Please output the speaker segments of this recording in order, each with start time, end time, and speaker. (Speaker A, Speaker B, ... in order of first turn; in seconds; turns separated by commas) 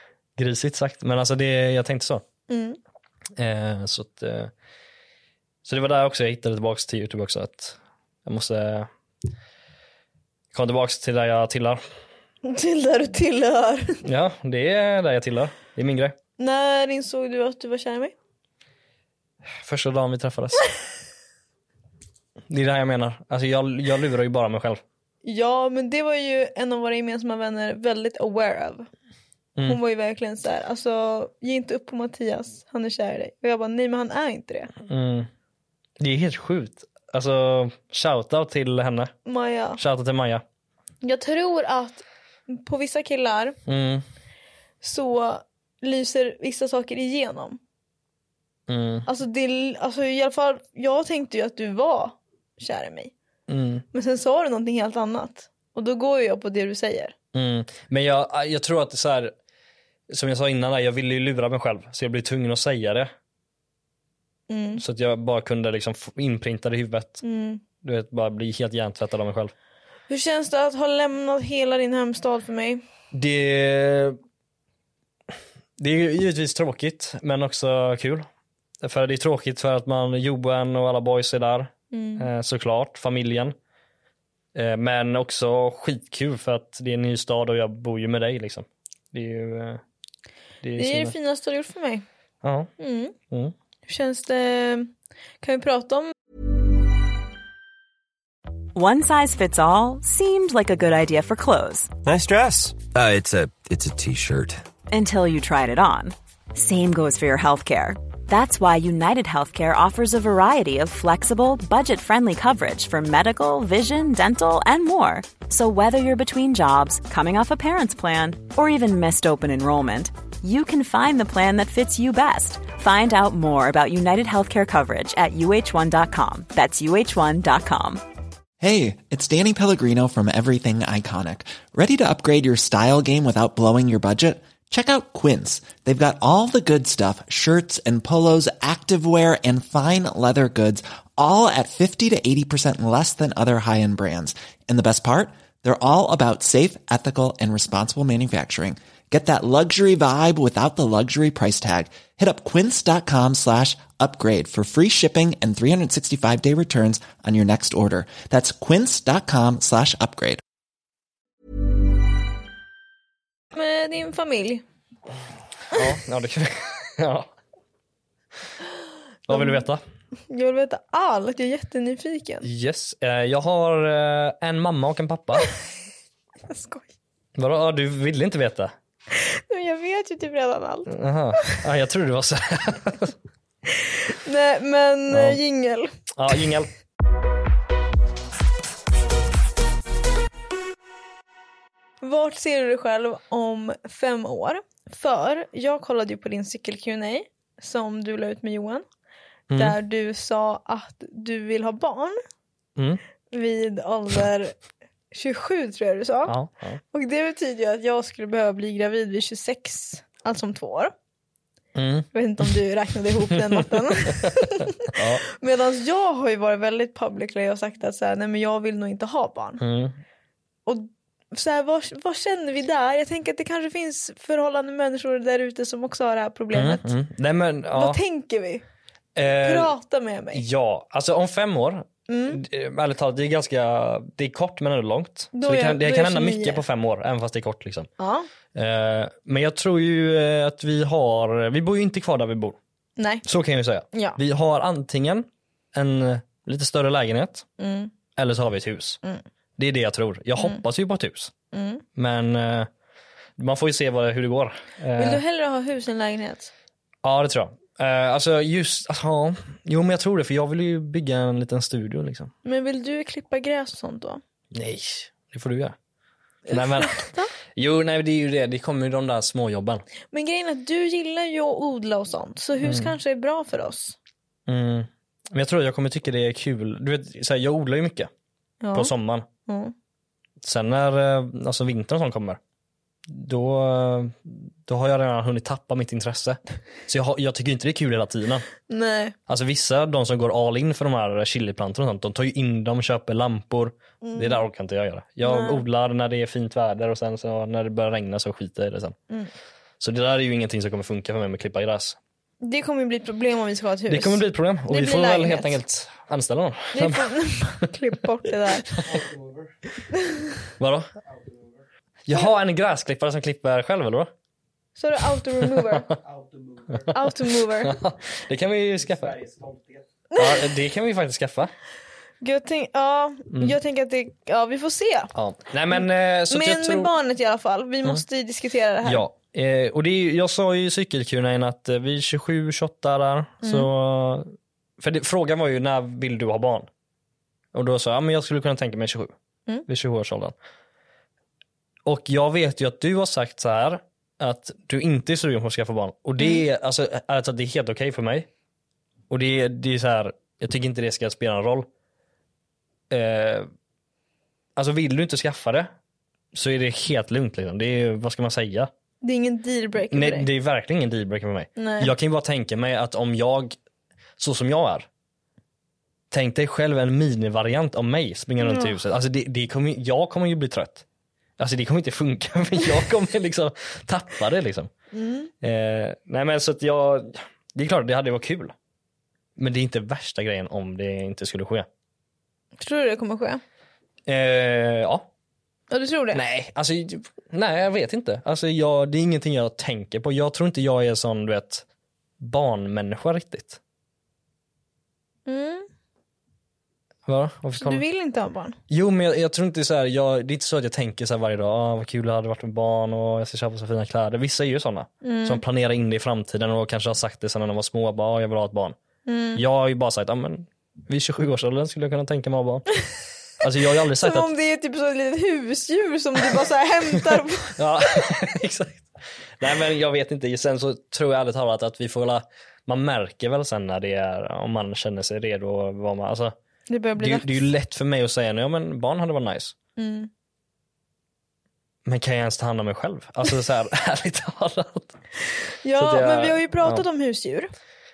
Speaker A: 0.3-2.2, Speaker B: 2.5-2.8, Speaker A: 3.4-4.5, Speaker A: 5.6-8.9, Speaker A: 10.5-11.8, Speaker B: 12.4-14.0, Speaker A: 14.0-16.1, Speaker B: 16.4-18.1, Speaker A: 19.6-20.6, Speaker A: 22.5-24.8, Speaker B: 25.2-28.9, Speaker B: 29.6-34.7, Speaker A: 34.9-35.3, Speaker A: 36.0-39.1, Speaker B: 39.2-39.8, Speaker A: 39.8-40.4, Speaker B: 41.0-43.5, Speaker A: 43.6-44.0, Speaker B: 44.8-47.6, Speaker A: 48.7-49.1, Speaker B: 49.1-53.1, Speaker A: 53.5-53.8, Speaker B: 53.9-57.1, Speaker A: 57.3-59.3, Speaker A: 60.1-63.1, Speaker B: 64.5-64.8, Speaker A: 64.8-67.2, Speaker B: 67.2-67.6, Speaker A: 67.8-69.5, Speaker B: 70.1-72.8, Speaker A: 73.1-74.2, Speaker A: 75.8-78.3, Speaker A: 78.8-83.5, Speaker B: 81.9-82.3, Speaker A: 84.5-89.8, Speaker A: 90.6-91.1, Speaker B: 90.8-92.0, Speaker A: 92.4-92.7, Speaker B: 92.8-93.1, Speaker B: 93.9-96.1, Speaker C: 98.7-102.0, Speaker D: 102.0-104.6, Speaker C: 104.9-128.0, Speaker E: 128.6-160.4, Speaker B: 163.5-164.6, Speaker A: 165.7-167.3, Speaker A: 169.3-169.8, Speaker B: 169.3-169.6, Speaker B: 170.3-172.4, Speaker A: 172.4-175.5, Speaker B: 176.5-176.9, Speaker A: 177.3-178.7, Speaker B: 179.1-180.9, Speaker A: 180.9-183.1, Speaker B: 183.9-185.9, Speaker A: 185.1-185.4, Speaker A: 186.1-186.7, Speaker B: 192.0-198.8, Speaker A: 199.5-199.8, Speaker B: 199.5-202.2, Speaker A: 202.8-203.0, Speaker B: 203.3-204.6, Speaker B: 205.1-206.3, Speaker A: 206.3-206.8, Speaker B: 206.9-210.9, Speaker A: 211.7-212.5, Speaker B: 212.1-219.6, Speaker A: 213.3-214.3, Speaker A: 214.9-215.2, Speaker A: 219.6-220.0, Speaker B: 220.7-226.9, Speaker A: 226.5-228.0, Speaker B: 227.7-228.6, Speaker A: 229.2-229.7, Speaker B: 229.4-230.4, Speaker A: 230.3-237.9, Speaker B: 232.1-232.4, Speaker B: 235.3-236.6, Speaker B: 238.0-238.3, Speaker A: 238.5-242.6, Speaker B: 243.0-243.2, Speaker A: 243.2-247.5, Speaker B: 243.9-244.2, Speaker B: 247.6-247.9, Speaker A: 248.2-249.0, Speaker A: 249.6-251.3, Speaker B: 251.5-251.8, Speaker A: 251.9-252.7, Speaker A: 253.4-255.2, Speaker B: 254.9-256.5, Speaker A: 257.0-262.3, Speaker B: 262.4-264.2, Speaker A: 264.5-265.8, Speaker B: 266.5-267.3, Speaker A: 266.5-269.8, Speaker B: 270.1-273.9, Speaker A: 272.6-272.9, Speaker A: 274.5-278.1, Speaker B: 278.6-278.9, Speaker A: 278.7-279.2, Speaker B: 279.5-279.7, Speaker A: 280.4-282.4, Speaker A: 283.1-288.4, Speaker B: 288.7-289.1, Speaker A: 289.3-298.9, Speaker B: 294.0-294.4, Speaker B: 295.2-295.6, Speaker A: 299.8-302.0, Speaker B: 302.4-305.6, Speaker A: 303.9-307.7, Speaker B: 306.7-309.0, Speaker A: 308.3-309.0, Speaker B: 309.9-310.5, Speaker A: 310.6-310.9, Speaker A: 312.1-314.1, Speaker B: 314.8-315.9, Speaker A: 315.2-316.0, Speaker A: 316.7-319.6, Speaker B: 316.9-317.7, Speaker B: 320.1-320.4, Speaker A: 320.1-321.5, Speaker B: 322.2-325.1, Speaker A: 323.3-323.6, Speaker A: 325.1-326.9, Speaker B: 325.7-329.0, Speaker A: 328.8-336.7, Speaker B: 333.4-333.7, Speaker A: 337.5-339.1, Speaker A: 339.7-340.3, Speaker A: 341.8-348.3, Speaker A: 349.1-351.7, Speaker A: 352.9-353.5, Speaker A: 354.6-355.7, Speaker A: 356.3-358.7, Speaker B: 359.0-360.3, Speaker A: 359.9-363.6, Speaker B: 361.6-361.9, Speaker A: 364.2-364.9, Speaker A: 366.1-370.8, Speaker B: 368.4-368.8, Speaker A: 371.4-374.7, Speaker B: 374.9-375.3, Speaker A: 375.4-378.5, Speaker A: 379.4-381.7, Speaker B: 382.6-383.4, Speaker A: 384.1-385.1, Speaker B: 385.7-386.2, Speaker A: 386.1-391.6, Speaker A: 392.2-393.6, Speaker B: 395.3-395.7, Speaker A: 397.1-397.8, Speaker B: 397.5-398.6, Speaker A: 398.7-408.8, Speaker B: 405.0-405.4, Speaker B: 409.1-409.4, Speaker A: 409.3-412.7, Speaker A: 413.4-414.3, Speaker B: 414.0-417.6, Speaker A: 417.5-426.4, Speaker B: 426.7-427.4, Speaker A: 427.0-429.5, Speaker B: 429.8-430.1, Speaker A: 431.8-435.0, Speaker B: 435.6-437.5, Speaker A: 435.8-436.8